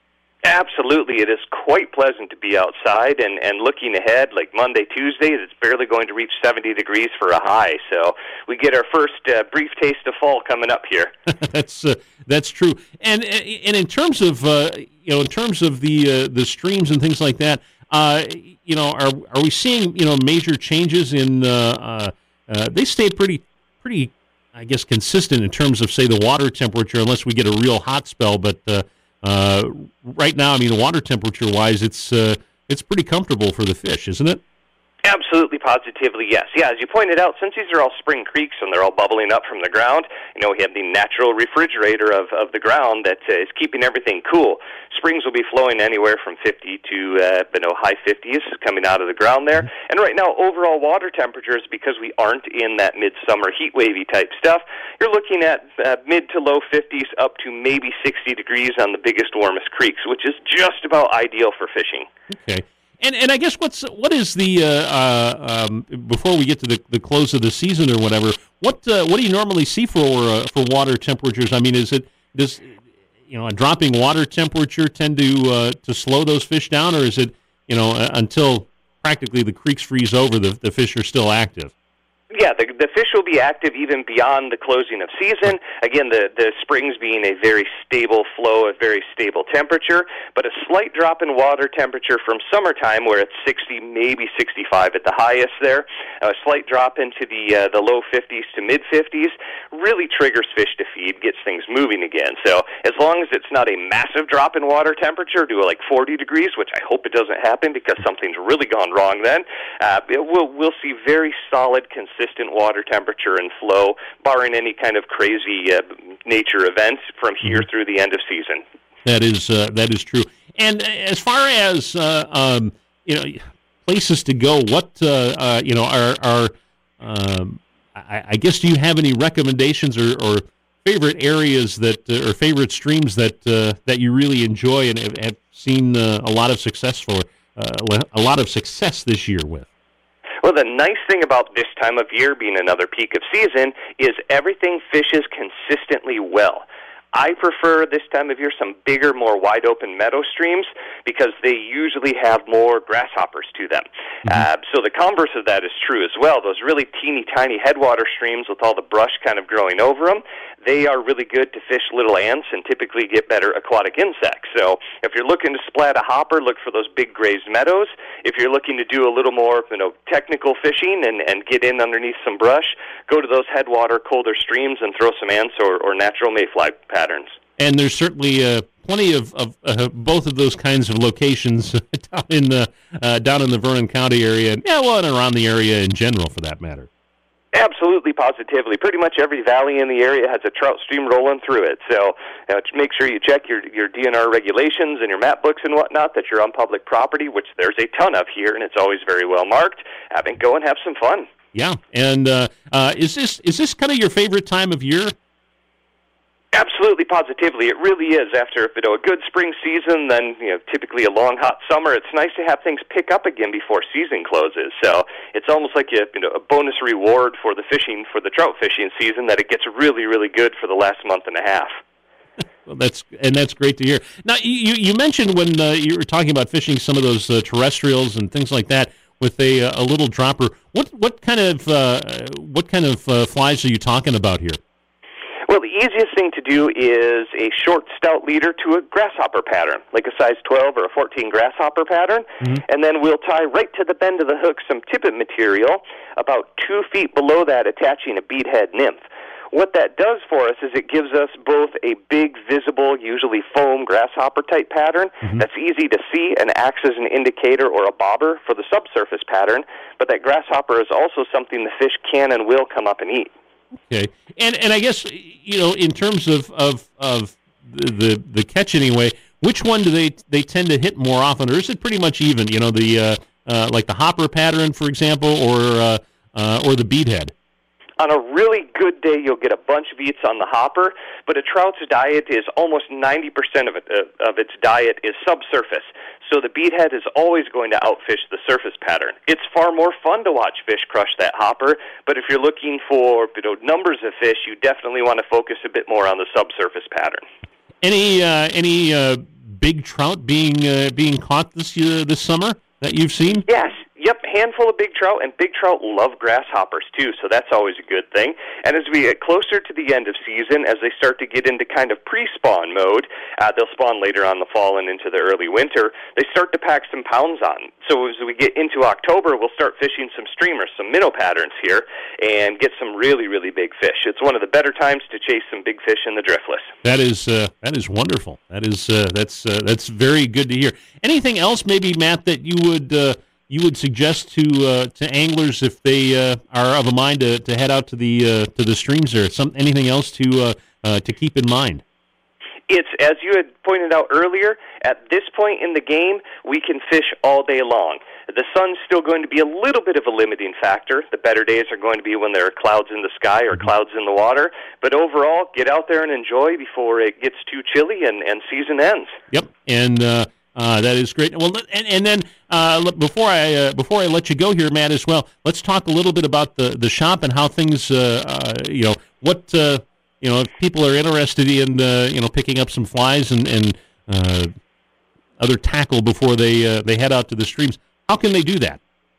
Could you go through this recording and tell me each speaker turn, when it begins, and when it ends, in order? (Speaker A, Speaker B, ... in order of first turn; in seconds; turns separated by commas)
Speaker A: 0.4-11.1, Speaker B: 11.3-34.4, Speaker A: 35.0-62.1, Speaker B: 62.3-81.7, Speaker A: 82.3-118.6, Speaker B: 119.0-139.7, Speaker A: 140.4-177.4, Speaker B: 177.6-186.9, Speaker A: 187.5-201.3, Speaker B: 201.5-205.1, Speaker A: 206.5-221.8, Speaker B: 222.7-234.6, Speaker A: 235.5-263.3, Speaker B: 263.8-277.3, Speaker A: 278.0-297.2, Speaker B: 297.8-303.5, Speaker A: 303.5-326.7, Speaker B: 326.8-341.8, Speaker A: 342.7-359.2, Speaker B: 359.3-374.5, Speaker B: 375.4-378.8